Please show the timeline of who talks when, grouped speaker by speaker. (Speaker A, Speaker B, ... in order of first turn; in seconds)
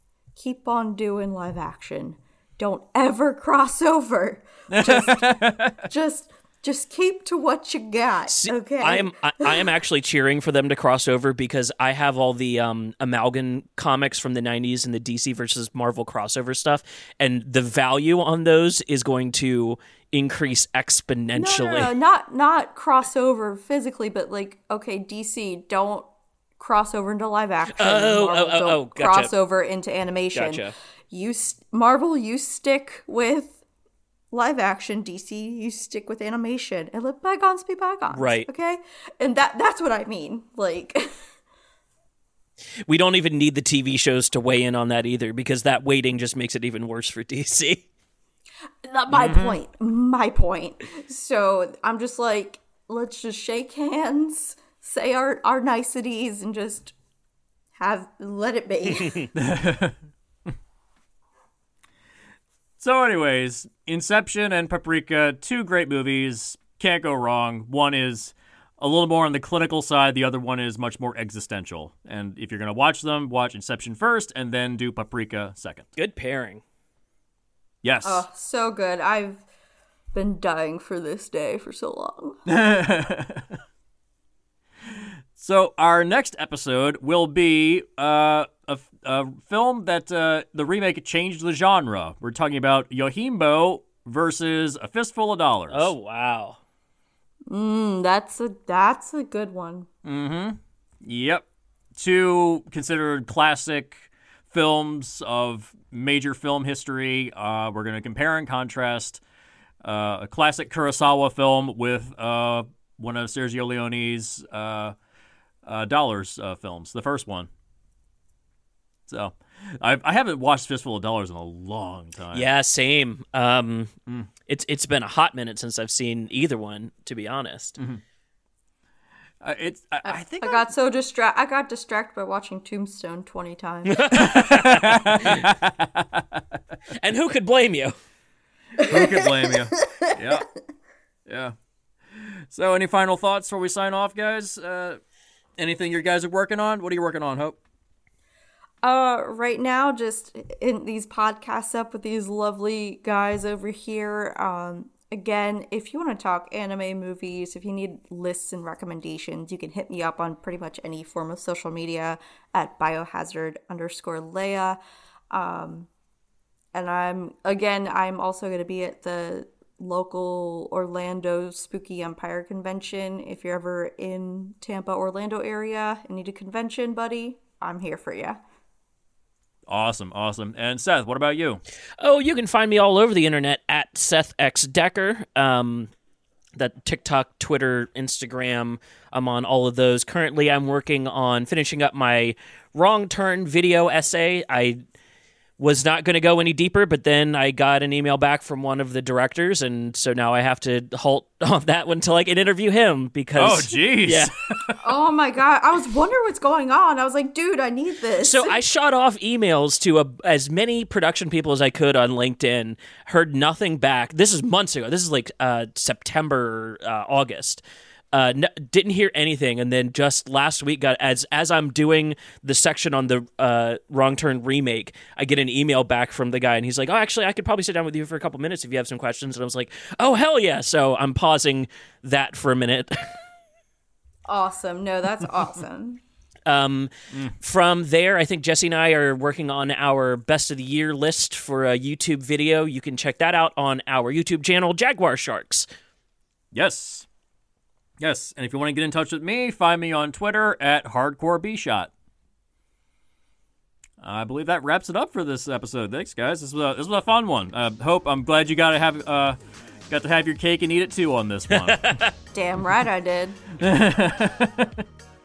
Speaker A: 0.3-9.6, 21.3-26.1, 26.6-33.6, 34.3-41.2, 48.8-56.9, 57.7-59.3, 78.0-79.4, 80.1-82.4, 97.5-99.9, 130.0-134.3, 138.8-140.4, 148.8-164.8, 165.3-165.9, 166.7-178.4, 204.8-208.6, 234.2-236.0, 262.3-263.4
Speaker B: 4.7-5.8, 49.1-49.6, 59.3-60.0, 62.8-75.9, 77.8-78.2, 82.5-83.5, 85.4-95.9, 100.0-101.4, 102.0-109.2, 109.8-114.9, 115.7-117.5, 119.1-122.5, 129.4-130.6, 134.1-136.4, 138.8-140.5, 141.3-141.5, 142.2-145.0, 145.6-147.6, 179.7-181.6, 203.3-204.8, 246.5-247.1, 248.0-251.9, 254.0-259.4, 259.9-262.0, 263.6-264.8
Speaker C: 8.3-21.9, 27.7-29.3, 30.3-30.7, 38.1-38.5, 42.9-47.8, 76.0-76.6, 95.7-96.6, 122.3-123.9, 124.5-127.8, 133.9-135.4, 136.9-137.9, 182.0-185.9, 186.6-194.8, 195.6-204.3, 208.2-233.2, 236.5-245.7, 261.6-262.1